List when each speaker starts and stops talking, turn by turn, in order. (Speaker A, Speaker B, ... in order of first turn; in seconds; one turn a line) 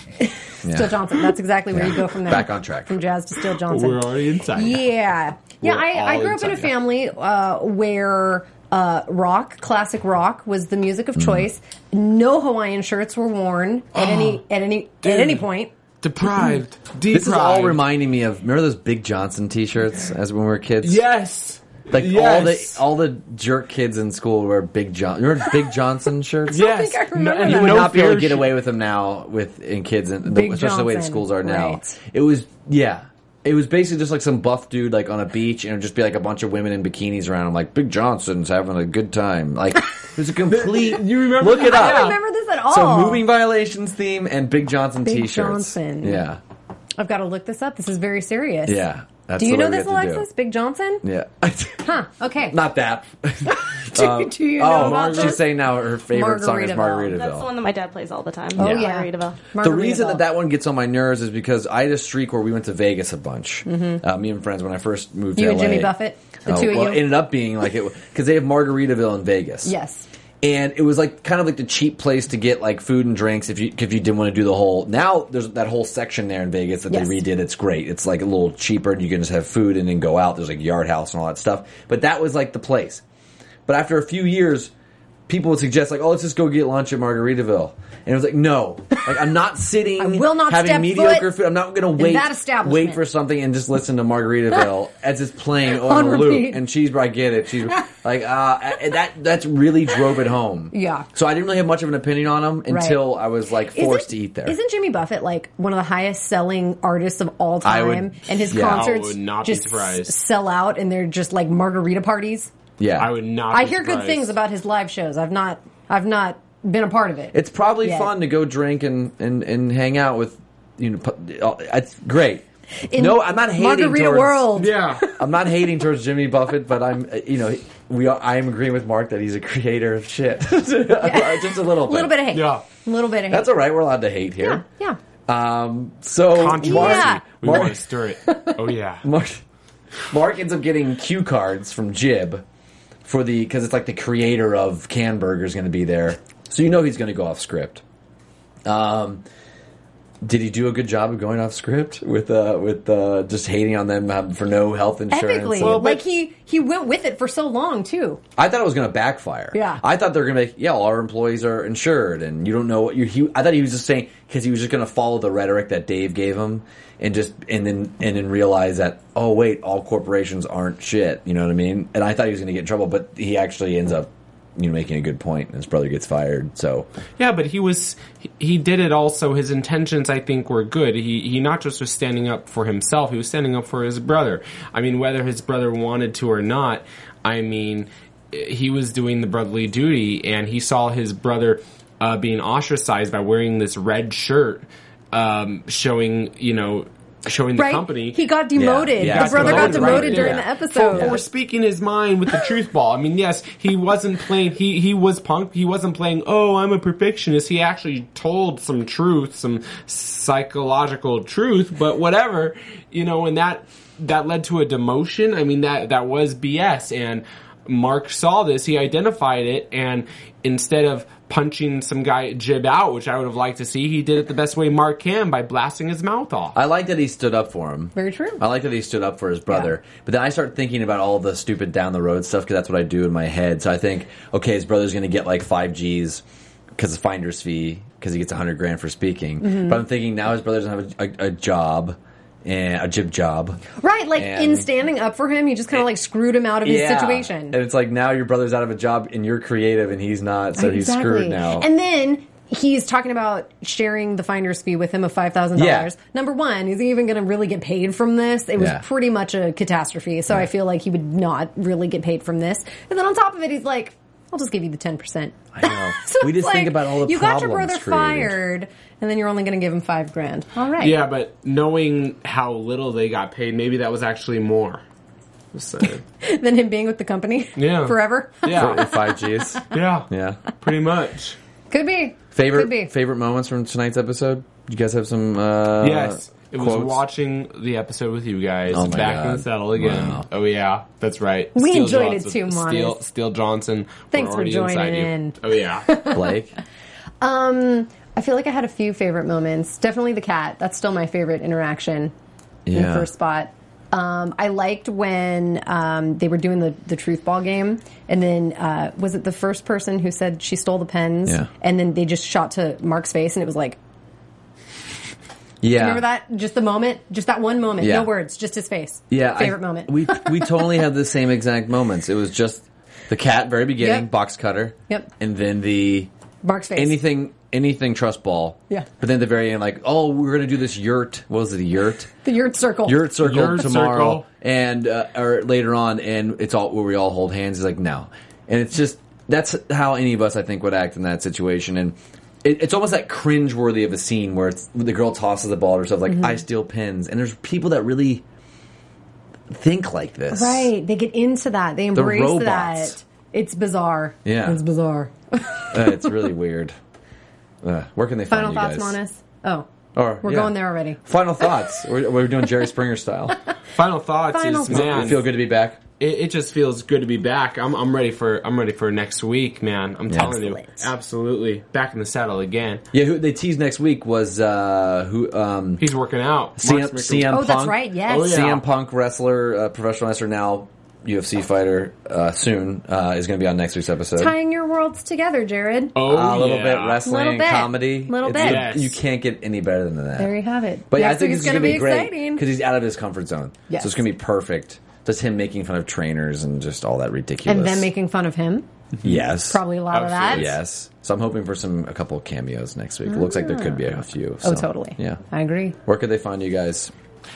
Speaker A: 0.2-15.7
Speaker B: 0.6-1.1
Speaker B: 1.7-3.0
Speaker C: 3.5-4.9
Speaker C: 5.6-6.7
Speaker B: 11.2-11.4
Speaker C: 13.9-14.4
Speaker C: 15.0-15.4
Speaker C: 16.0-17.8
Speaker B: 17.1-21.0
Speaker C: 20.8-22.8
Speaker B: 21.9-26.7
Speaker A: 26.5-28.0
Speaker C: 26.5-28.6
Speaker B: 27.4-46.4
Speaker A: 30.2-31.9
Speaker C: 40.5-42.2
Speaker A: 41.4-43.3
Speaker A: 45.0-46.2
Speaker A: 47.0-48.8
Speaker B: 48.6-50.3
Speaker A: 49.4-51.0
Speaker B: 51.0-57.5
Speaker A: 51.8-52.6
Speaker A: 53.4-55.5
Speaker C: 54.6-55.4
Speaker A: 56.0-57.1
Speaker D: 57.1-59.4
Speaker B: 58.5-58.9
Speaker A: 58.5-60.2
Speaker B: 59.5-69.7
Speaker A: 63.6-64.0
Speaker A: 65.3-67.2
Speaker A: 69.6-70.1
Speaker B: 70.4-83.0
Speaker A: 76.9-77.2
Speaker B: 83.7-84.7
Speaker B: 85.3-104.5
Speaker A: 90.0-91.3
Speaker A: 91.9-93.0
Speaker A: 95.7-96.6
Speaker A: 100.7-101.1
Speaker A: 102.7-103.1
Speaker A: 103.7-112.5
Speaker B: 107.6-108.9
Speaker C: 108.5-110.2
Speaker B: 112.8-113.1
Speaker C: 113.0-114.3
Speaker A: 113.5-118.1
Speaker B: 117.3-124.5
Speaker A: 122.8-125.3
Speaker C: 124.5-125.0
Speaker B: 125.2-132.1
Speaker A: 131.0-133.5
Speaker C: 132.3-132.6
Speaker B: 133.3-134.6
Speaker A: 134.4-135.0
Speaker B: 135.3-137.8
Speaker C: 136.3-139.1
Speaker A: 136.6-137.2
Speaker A: 138.2-138.6
Speaker B: 139.0-139.4
Speaker B: 140.1-142.4
Speaker B: 143.0-147.8
Speaker B: 148.7-149.2
Speaker B: 150.2-155.9
Speaker A: 155.1-158.2
Speaker C: 155.6-156.0
Speaker B: 158.4-176.9
Speaker A: 159.5-159.8
Speaker C: 177.2-198.2
Speaker A: 197.6-201.2
Speaker B: 198.5-201.2
Speaker C: 199.0-226.6
Speaker B: 226.5-236.2
Speaker A: 227.9-228.4
Speaker B: 236.7-243.6
Speaker A: 239.4-239.8
Speaker A: 243.8-247.6
Speaker B: 244.2-244.7
Speaker B: 246.6-251.7
Speaker A: 250.6-271.0
Speaker B: 255.6-255.9
Speaker B: 258.6-258.8
Speaker B: 265.5-268.4
Speaker C: 270.8-274.8
Speaker C: 275.5-276.0
Speaker A: 276.2-279.7
Speaker C: 277.6-278.8
Speaker B: 278.5-280.4
Speaker C: 279.7-280.1
Speaker C: 280.6-281.4
Speaker A: 281.7-282.9
Speaker B: 282.3-287.0
Speaker C: 285.8-295.9
Speaker B: 288.7-290.2
Speaker A: 291.5-293.0
Speaker A: 294.1-296.3
Speaker B: 296.1-296.6
Speaker A: 297.2-302.1
Speaker B: 302.6-303.1
Speaker A: 302.7-313.8
Speaker B: 315.6-316.0
Speaker A: 315.7-320.6
Speaker B: 317.8-318.1
Speaker B: 319.1-326.1
Speaker A: 323.8-324.1
Speaker A: 326.4-327.0
Speaker B: 326.8-332.1
Speaker A: 332.2-333.1
Speaker B: 332.8-348.2
Speaker C: 333.2-334.2
Speaker A: 346.1-346.4
Speaker B: 349.5-350.7
Speaker A: 350.3-356.1
Speaker B: 351.9-352.9
Speaker B: 354.2-354.6
Speaker B: 355.7-356.7
Speaker B: 357.6-359.0
Speaker A: 358.3-359.7
Speaker B: 359.9-363.4
Speaker A: 360.2-361.0
Speaker C: 363.7-365.2
Speaker A: 364.3-365.2
Speaker B: 364.7-365.8
Speaker C: 366.0-372.8
Speaker B: 370.1-370.3
Speaker A: 370.2-370.9
Speaker B: 372.9-375.8
Speaker C: 375.8-377.3
Speaker B: 376.6-384.3
Speaker A: 377.3-378.5
Speaker C: 378.1-378.6
Speaker A: 384.2-386.0
Speaker C: 385.9-387.0
Speaker B: 386.0-390.3
Speaker A: 387.0-388.7
Speaker C: 388.3-389.0
Speaker A: 390.2-392.4
Speaker B: 390.9-397.9
Speaker A: 393.7-394.0
Speaker A: 397.4-398.6
Speaker B: 399.0-399.6
Speaker A: 399.4-400.5
Speaker C: 399.9-400.6
Speaker B: 400.3-405.2
Speaker A: 403.1-403.8
Speaker A: 404.4-405.8
Speaker B: 405.8-406.9